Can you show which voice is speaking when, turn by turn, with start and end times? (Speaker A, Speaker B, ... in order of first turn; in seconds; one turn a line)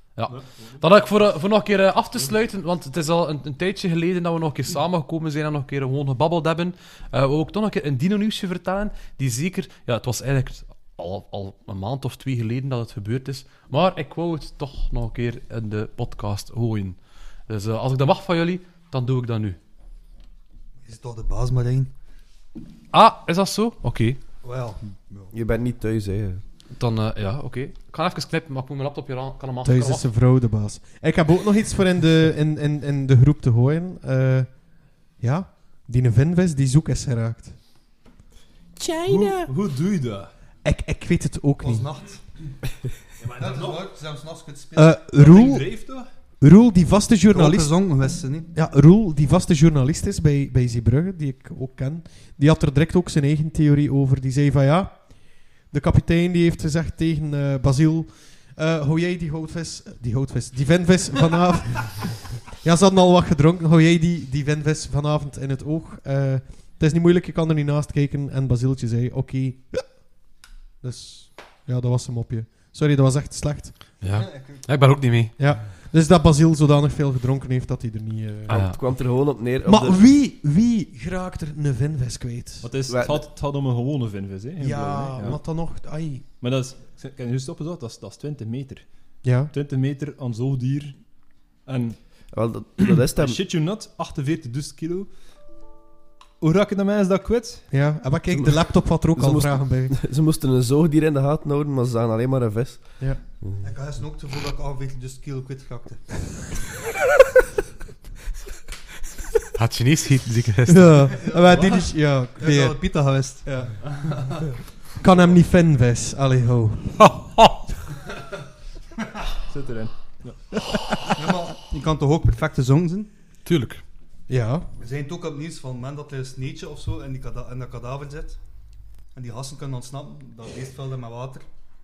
Speaker A: 0.1-19.6
Speaker B: 0.3-0.8
Speaker C: 20.8-21.9
Speaker A: 22.9-24.2
Speaker C: 24.4-25.3
Speaker D: 25.3-26.4
Speaker A: 26.7-30.1
Speaker E: 29.6-37.6
Speaker E: 38.8-39.5
Speaker B: 39.1-40.3
Speaker E: 40.6-41.9
Speaker C: 41.6-42.5
Speaker B: 43.2-43.9
Speaker C: 43.4-45.0
Speaker E: 44.8-47.8
Speaker B: 45.1-46.1
Speaker C: 47.3-48.5
Speaker E: 48.5-70.1
Speaker E: 70.8-73.9
Speaker A: 74.0-75.3
Speaker C: 74.1-74.7
Speaker E: 75.4-78.7
Speaker A: 78.5-78.8
Speaker D: 78.5-80.1
Speaker E: 79.7-82.7
Speaker B: 82.6-85.4
Speaker D: 82.9-83.3
Speaker E: 84.6-86.3
Speaker B: 86.4-91.1
Speaker E: 89.2-89.5
Speaker B: 91.6-95.1
Speaker D: 92.3-93.4
Speaker B: 96.4-97.7
Speaker E: 97.7-100.0
Speaker D: 98.3-103.7
Speaker C: 103.6-106.0
Speaker A: 109.5-111.1
Speaker E: 110.7-113.3
Speaker C: 111.2-115.4
Speaker E: 115.0-117.3
Speaker A: 117.0-117.6
Speaker B: 119.5-120.6
Speaker C: 121.1-123.1
Speaker A: 123.5-123.8
Speaker E: 124.3-124.7
Speaker C: 124.8-128.4
Speaker C: 129.1-131.4